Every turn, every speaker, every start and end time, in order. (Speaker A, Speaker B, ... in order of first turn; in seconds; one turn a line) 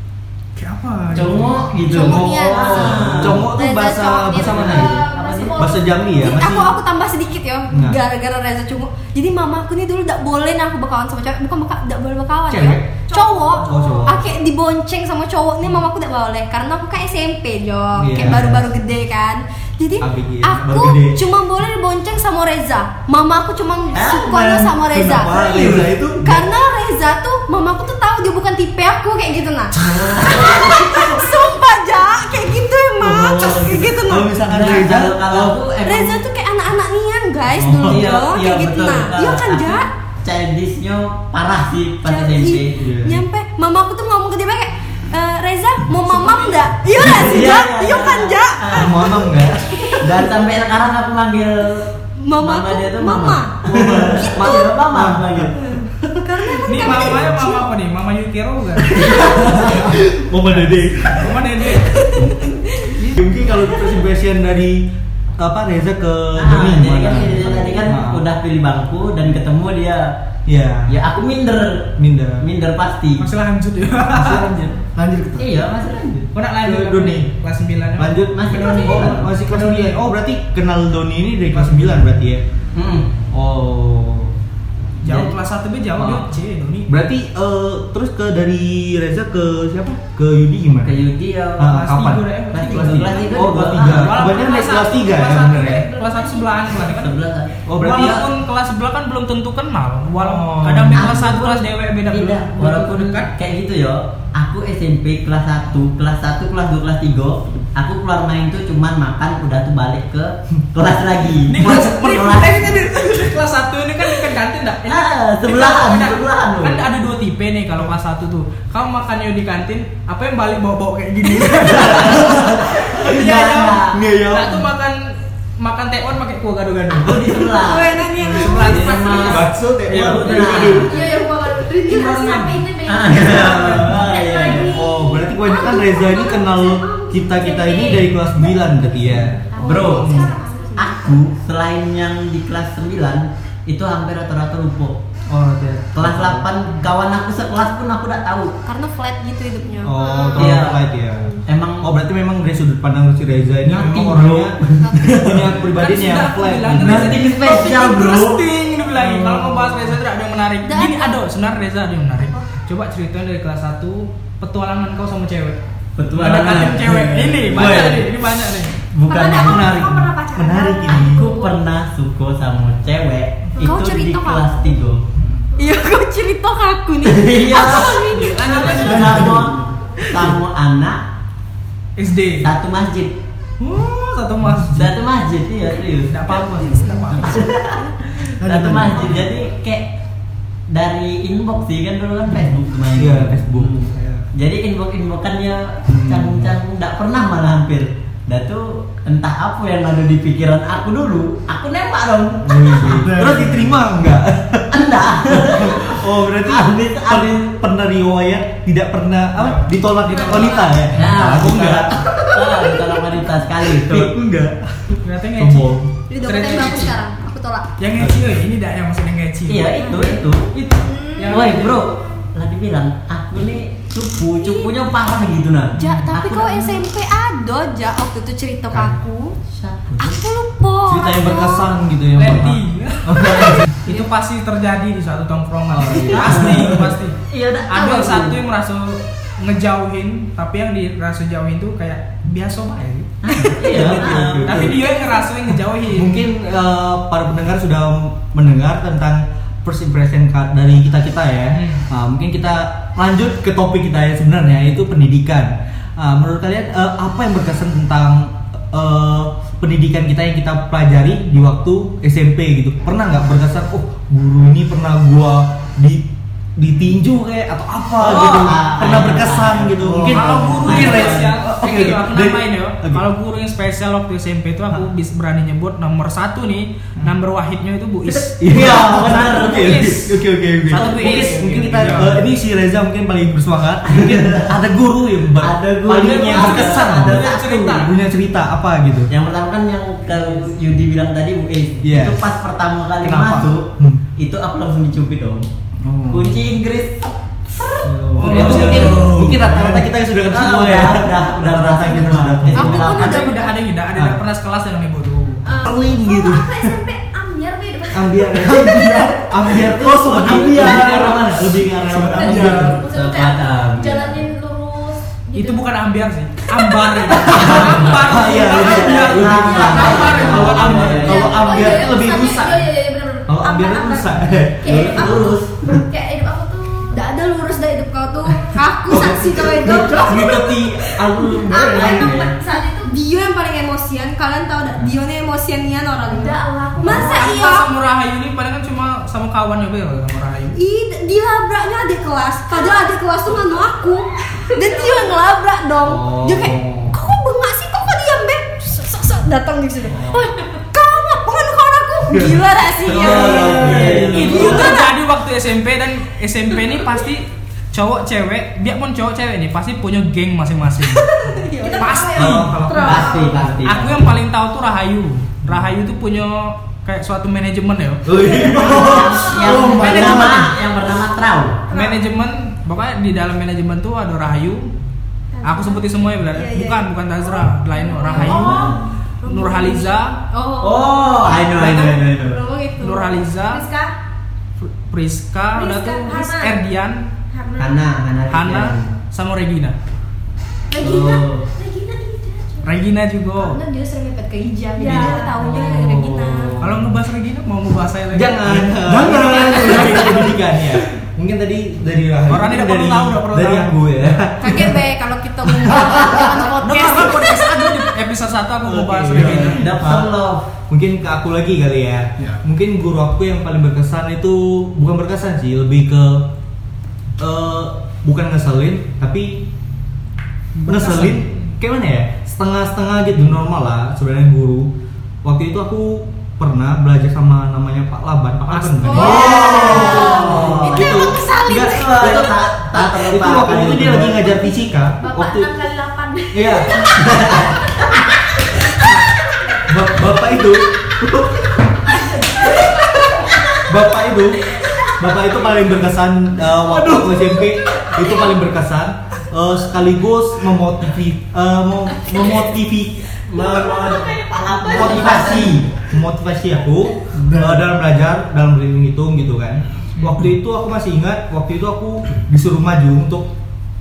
Speaker A: 0.6-6.8
Speaker B: 1.1-3.5
Speaker C: 1.8-4.8
Speaker B: 4.3-5.6
Speaker D: 4.6-6.4
Speaker C: 6.2-34.3
Speaker A: 7.7-8.0
Speaker A: 12.5-12.9
Speaker D: 13.1-14.0
Speaker A: 13.6-14.2
Speaker A: 17.9-18.7
Speaker A: 20.0-21.2
Speaker B: 23.9-24.4
Speaker A: 24.2-26.4
Speaker B: 25.4-25.9
Speaker B: 29.8-30.9
Speaker A: 33.0-35.6
Speaker B: 34.4-36.2
Speaker C: 35.8-39.9
Speaker A: 37.5-38.1
Speaker B: 37.9-42.8
Speaker C: 42.0-49.1
Speaker A: 42.7-43.2
Speaker B: 47.0-49.3
Speaker A: 48.7-49.7
Speaker C: 49.7-50.2
Speaker B: 49.9-51.9
Speaker C: 52.2-54.8
Speaker B: 52.4-55.6
Speaker A: 53.6-57.4
Speaker C: 55.6-57.7
Speaker E: 56.6-59.0
Speaker A: 58.9-61.6
Speaker E: 60.5-62.2
Speaker C: 62.3-63.0
Speaker A: 63.1-68.2
Speaker B: 66.3-70.1
Speaker A: 70.5-71.0
Speaker B: 70.9-73.2
Speaker A: 72.0-72.5
Speaker E: 73.2-74.5
Speaker A: 74.1-74.7
Speaker F: 74.9-75.5
Speaker B: 75.4-76.3
Speaker E: 76.3-80.0
Speaker A: 76.6-77.3
Speaker A: 78.0-82.4
Speaker B: 78.3-79.3
Speaker D: 78.5-78.9
Speaker E: 81.5-82.0
Speaker B: 82.7-83.1
Speaker A: 83.3-84.3
Speaker E: 85.0-86.9
Speaker B: 85.0-85.3
Speaker A: 85.9-86.2
Speaker A: 86.9-91.0
Speaker B: 90.8-91.7
Speaker A: 91.6-95.9
Speaker E: 91.7-97.2
Speaker B: 92.5-94.4
Speaker D: 94.5-96.7
Speaker B: 96.7-98.2
Speaker A: 97.7-98.3
Speaker E: 97.8-103.3
Speaker A: 100.2-101.2
Speaker B: 100.9-112.8
Speaker E: 111.5-130.9
Speaker B: 114.8-116.8
Speaker A: 121.7-123.1
Speaker B: 121.8-124.0
Speaker A: 123.9-124.7
Speaker B: 126.9-131.1
Speaker F: 128.3-128.6
Speaker A: 129.3-130.9
Speaker D: 130.8-140.8
Speaker E: 131.9-132.6
Speaker B: 132.9-134.8
Speaker A: 133.1-140.3
Speaker C: 135.7-136.6
Speaker C: 137.6-138.0
Speaker C: 139.5-141.0
Speaker B: 139.6-145.0
Speaker A: 145.3-146.5
Speaker B: 145.9-148.5
Speaker C: 148.7-150.7
Speaker A: 149.8-157.2
Speaker D: 150.0-150.3
Speaker B: 150.4-150.8
Speaker B: 151.4-151.9
Speaker B: 153.7-155.6
Speaker E: 155.8-165.6
Speaker B: 156.7-158.4
Speaker A: 158.9-159.9
Speaker C: 160.6-161.2
Speaker B: 165.9-168.0
Speaker E: 166.1-168.8
Speaker A: 167.4-168.1
Speaker B: 168.9-169.9
Speaker C: 169.1-171.0
Speaker D: 169.1-171.6
Speaker A: 169.2-171.3
Speaker B: 170.9-175.0
Speaker C: 173.6-174.7
Speaker C: 175.6-178.7
Speaker B: 177.0-181.0
Speaker E: 178.1-179.3
Speaker F: 178.7-179.7
Speaker E: 182.0-182.5
Speaker B: 182.4-183.2
Speaker E: 183.6-184.9
Speaker B: 184.7-186.4
Speaker E: 186.1-187.5
Speaker C: 186.8-187.7
Speaker B: 187.1-189.9
Speaker F: 188.4-189.3
Speaker B: 190.7-202.9
Speaker A: 192.9-194.3
Speaker A: 195.9-196.5
Speaker A: 202.4-212.3
Speaker F: 202.8-203.8
Speaker B: 204.7-207.5
Speaker E: 209.4-210.5
Speaker D: 210.1-210.7
Speaker C: 210.1-210.5
Speaker B: 210.9-214.1
Speaker A: 213.7-215.9
Speaker E: 215.0-217.0
Speaker C: 216.1-217.7
Speaker E: 217.8-219.9
Speaker A: 218.0-218.2
Speaker B: 219.5-220.5
Speaker C: 219.8-220.2
Speaker E: 220.5-221.8
Speaker C: 220.8-221.7
Speaker B: 221.3-226.8
Speaker C: 224.4-224.7
Speaker C: 225.8-229.3
Speaker B: 229.5-230.2
Speaker C: 230.0-231.7
Speaker A: 230.9-233.7
Speaker E: 232.2-237.2
Speaker B: 233.3-233.6
Speaker A: 235.7-236.9
Speaker B: 236.1-238.4
Speaker E: 237.7-243.1
Speaker B: 243.2-244.8
Speaker A: 243.6-244.8
Speaker E: 243.7-246.1
Speaker A: 245.9-266.1
Speaker E: 251.5-251.8
Speaker A: 266.6-273.0
Speaker B: 268.0-271.3
Speaker E: 268.2-268.5
Speaker E: 270.1-282.2
Speaker A: 278.4-289.1
Speaker B: 278.4-280.0
Speaker B: 280.7-282.1
Speaker B: 283.9-284.5
Speaker B: 285.4-287.9
Speaker E: 286.1-287.9
Speaker B: 289.1-295.4
Speaker E: 290.1-290.5
Speaker A: 291.8-292.2
Speaker A: 293.0-294.0
Speaker A: 295.8-296.4
Speaker B: 296.1-297.1
Speaker A: 297.8-303.2
Speaker F: 298.1-299.8
Speaker E: 298.2-299.1
Speaker B: 298.2-299.6
Speaker B: 300.3-303.4
Speaker E: 302.6-305.4
Speaker C: 302.6-303.2
Speaker A: 303.9-304.2
Speaker D: 305.4-309.1
Speaker A: 305.6-306.7
Speaker A: 307.9-312.8
Speaker F: 308.4-311.1
Speaker B: 309.6-314.3
Speaker D: 312.1-315.7
Speaker E: 315.3-321.3
Speaker D: 316.7-317.3
Speaker B: 317.2-321.5
Speaker A: 317.2-322.7
Speaker D: 319.3-326.9
Speaker A: 323.3-325.3
Speaker B: 324.6-325.6
Speaker C: 326.9-332.1
Speaker A: 328.9-332.1
Speaker D: 329.8-330.1
Speaker B: 330.1-330.4
Speaker B: 331.1-332.3
Speaker D: 331.5-332.9
Speaker C: 332.8-337.7
Speaker D: 336.1-337.6
Speaker E: 336.8-340.6
Speaker C: 340.6-354.9
Speaker D: 344.5-345.1
Speaker A: 345.8-346.9
Speaker A: 349.9-350.2
Speaker A: 352.1-354.7
Speaker B: 352.9-354.8
Speaker E: 353.9-361.1
Speaker D: 361.2-363.3
Speaker C: 361.2-362.4
Speaker E: 361.7-362.6
Speaker A: 362.1-363.6
Speaker B: 362.8-364.0
Speaker E: 363.6-368.1
Speaker A: 368.0-370.4
Speaker D: 368.2-370.1
Speaker B: 368.3-371.6
Speaker F: 369.4-370.5
Speaker E: 369.6-370.5
Speaker D: 371.7-372.0
Speaker E: 371.7-374.7
Speaker D: 375.3-380.0
Speaker E: 375.4-380.2
Speaker B: 378.1-378.8
Speaker A: 378.2-378.4
Speaker C: 378.2-378.5
Speaker C: 380.3-383.1
Speaker B: 380.6-382.4
Speaker E: 382.8-383.6
Speaker D: 383.4-383.9
Speaker E: 384.6-387.0
Speaker D: 385.5-386.6
Speaker D: 387.3-387.8
Speaker B: 387.6-388.9
Speaker E: 388.3-389.8
Speaker D: 390.7-392.8
Speaker B: 390.8-391.4
Speaker E: 392.6-393.6
Speaker C: 393.4-396.6
Speaker D: 394.8-395.6
Speaker E: 394.9-395.8
Speaker A: 395.5-396.9
Speaker E: 396.6-398.4
Speaker A: 398.1-404.8
Speaker F: 398.5-400.4
Speaker E: 402.3-403.7
Speaker C: 404.4-407.8
Speaker E: 406.6-409.7
Speaker A: 408.6-410.1
Speaker B: 409.1-410.5
Speaker A: 410.7-416.3
Speaker A: 417.2-419.4
Speaker E: 420.6-421.3
Speaker A: 420.6-424.7
Speaker A: 425.2-435.5
Speaker E: 428.5-429.4
Speaker B: 428.9-434.4
Speaker D: 428.9-430.3
Speaker C: 429.0-432.3
Speaker D: 430.9-431.5
Speaker D: 435.0-440.6
Speaker A: 436.3-437.5
Speaker B: 436.9-437.5
Speaker A: 439.6-441.5
Speaker D: 441.9-443.6
Speaker A: 442.4-442.7
Speaker A: 443.5-454.0
Speaker D: 444.5-445.6
Speaker D: 447.2-448.4
Speaker B: 453.3-455.7
Speaker D: 453.4-455.4
Speaker A: 454.7-463.3
Speaker F: 457.1-457.6